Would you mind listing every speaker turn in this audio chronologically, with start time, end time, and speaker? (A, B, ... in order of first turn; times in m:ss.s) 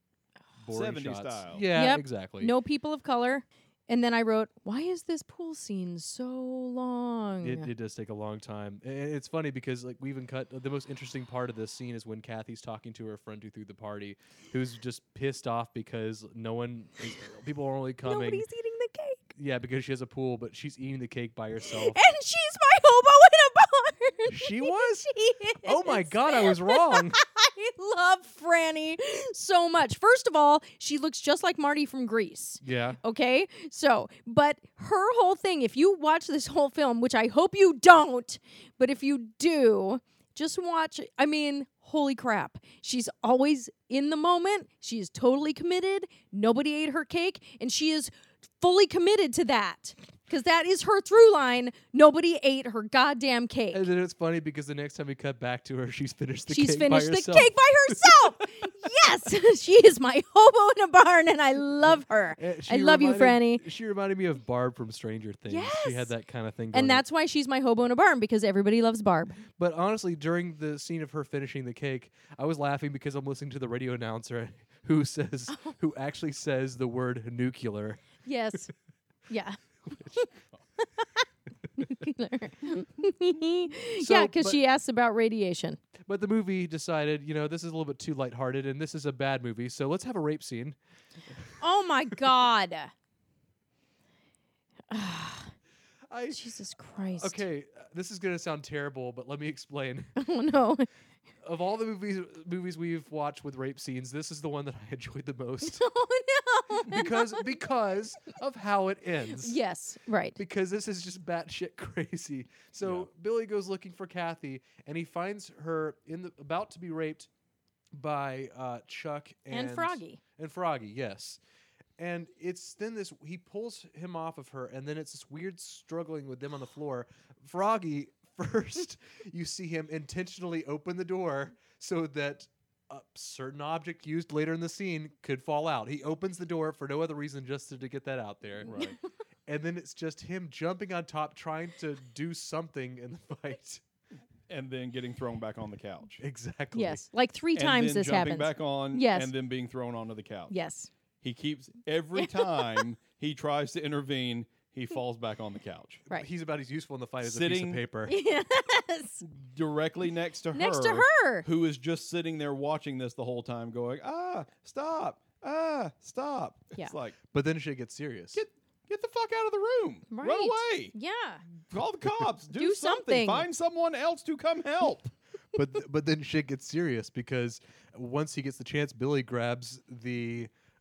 0:00.6-0:02.5 A
0:00.7-0:01.6 B
0:01.7-0:07.7 C
0:07.4-0:18.5 A
0:18.0-0:19.3 C
0:19.4-0:22.0 A
0:21.7-0:53.8 C
0:24.3-0:27.2 A
0:32.6-0:33.0 A
0:53.7-0:58.9 A
0:56.5-1:03.6 C
1:02.4-1:07.0 A
1:05.5-1:06.1 C
1:06.7-1:09.4 C
1:09.6-1:18.1 A
1:18.2-1:18.7 C
1:19.3-1:19.6 C
1:19.9-1:20.2 A
1:21.8-1:25.8 C
1:24.0-1:24.6 A
1:26.0-1:30.8 A
1:31.6-1:32.9 C
1:34.9-1:35.5 C
1:36.1-1:36.4 A
1:36.3-1:37.4 C
1:37.2-1:40.2 A
1:40.2-1:40.9 C
1:41.4-1:45.9 A
1:45.6-1:47.4 C
1:46.9-1:49.6 A
1:49.4-1:50.4 C
1:50.4-1:57.3 A
1:52.8-1:53.1 B
1:57.9-2:01.4 A
1:59.5-2:00.2 C
2:02.0-2:18.9 A
2:18.6-2:19.0 B
2:18.6-2:18.9 C
2:19.5-2:23.8 A
2:24.5-2:26.2 B
2:26.2-2:27.0 A
2:26.7-2:29.3 C
2:27.5-2:30.5 B
2:30.5-2:30.9 C
2:31.2-2:36.0 B
2:32.2-2:32.8 C
2:36.1-2:38.2 A
2:37.2-2:37.8 B
2:38.1-2:39.2 C
2:39.2-2:47.2 B
2:40.5-2:41.5 C
2:47.3-2:48.4 A
2:48.3-2:50.9 B
2:50.1-2:51.4 C
2:51.7-2:55.1 B
2:52.6-2:53.4 C
2:55.5-3:00.5 A